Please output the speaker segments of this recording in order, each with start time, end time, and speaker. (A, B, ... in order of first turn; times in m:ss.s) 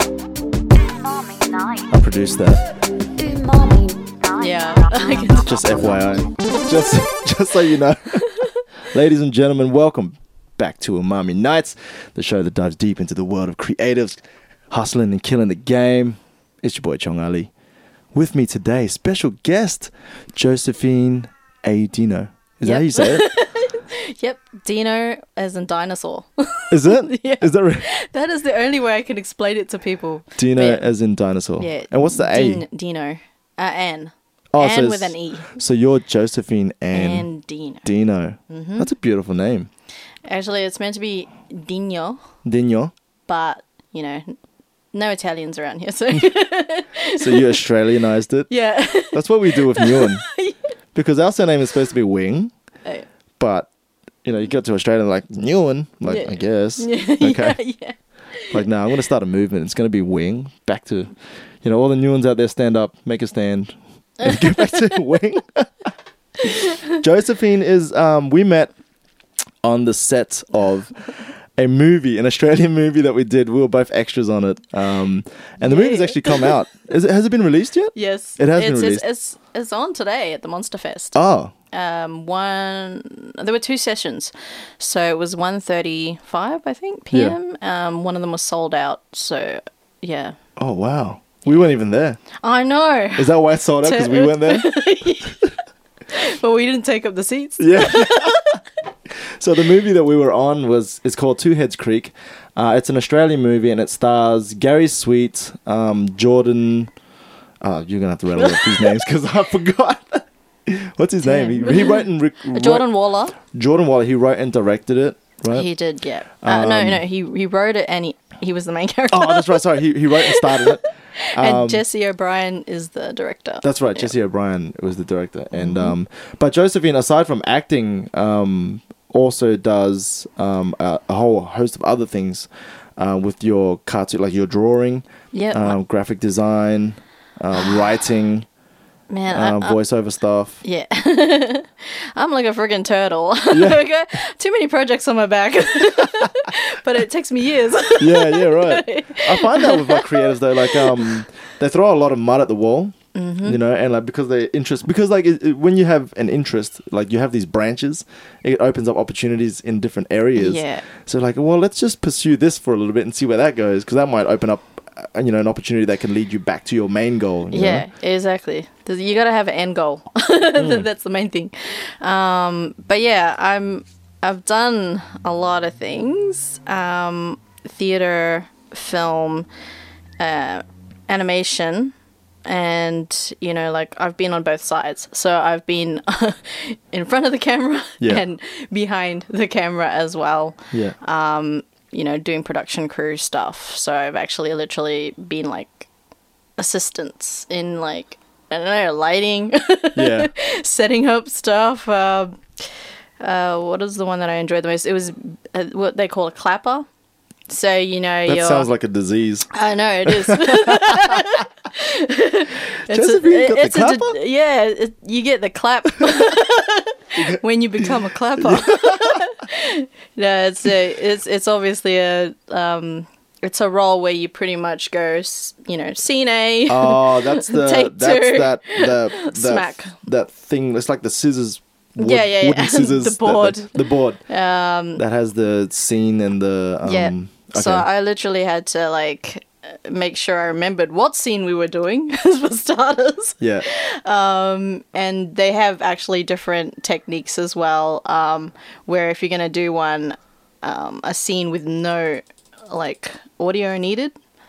0:00.8-0:01.9 A
0:01.9-0:02.6 B
0:03.2-0:06.0 A
0:04.4-0:05.7 C
0:05.4-0:08.2 B
0:08.9-0:17.5 B
0:18.1-0:23.2 B
0:22.6-0:30.8 C
0:26.7-0:27.8 B
0:30.4-0:32.6 B
0:31.6-0:35.5 C
0:34.5-0:37.3 B
0:36.9-0:37.8 C
0:37.8-0:39.7 B
0:38.5-0:38.9 C
0:40.2-0:42.2 C
0:42.4-0:42.9 B
0:43.3-0:44.4 C
0:44.9-0:47.6 C
0:47.2-0:48.5 B
0:48.5-0:50.6 C
0:49.1-0:50.2 B
0:50.9-0:52.5 B
0:53.4-0:53.7 B
0:54.2-0:57.6 B
0:56.1-0:58.6 C
0:58.5-1:05.7 B
1:04.2-1:05.0 C
1:06.4-1:07.0 C
1:06.9-1:08.7 B
1:09.6-1:10.9 B
1:11.6-1:19.0 B
1:15.6-1:16.5 C
1:17.9-1:21.1 C
1:21.1-1:21.5 B
1:21.7-1:30.4 C
1:27.1-1:27.4 B
1:30.6-1:32.2 B
1:32.4-1:35.5 C
1:33.2-1:34.7 B
1:36.1-1:38.6 C
1:37.6-1:38.6 B
1:39.4-1:46.9 B
1:47.6-1:52.9 B
1:48.4-1:48.9 C
1:51.2-1:53.3 C
1:53.4-1:55.7 B
1:55.5-2:04.1 C
1:56.4-1:57.0 B
1:59.1-2:00.8 B
2:01.3-2:01.8 B
2:03.6-2:18.5 B
2:05.5-2:05.9 C
2:15.3-2:15.8 C
2:19.1-2:19.8 C
2:19.3-2:20.6 B
2:20.6-2:31.2 C
2:23.5-2:23.8 B
2:28.0-2:47.8 B
2:33.1-2:33.6 C
2:40.4-2:40.8 C
2:47.5-2:59.5 C
3:00.2-3:01.9 C
3:02.4-3:15.9 C
3:16.6-3:26.8 C
3:20.0-3:20.3 B
3:27.5-3:28.7 C
3:28.3-3:29.5 B
3:29.5-3:50.0 C
3:30.0-3:31.3 B
3:32.9-3:34.2 B
3:37.2-3:39.2 B
3:46.7-3:54.2 B
3:52.0-3:55.0 C
3:55.0-3:57.8 B
3:56.8-4:14.1 C
4:03.4-4:03.6 B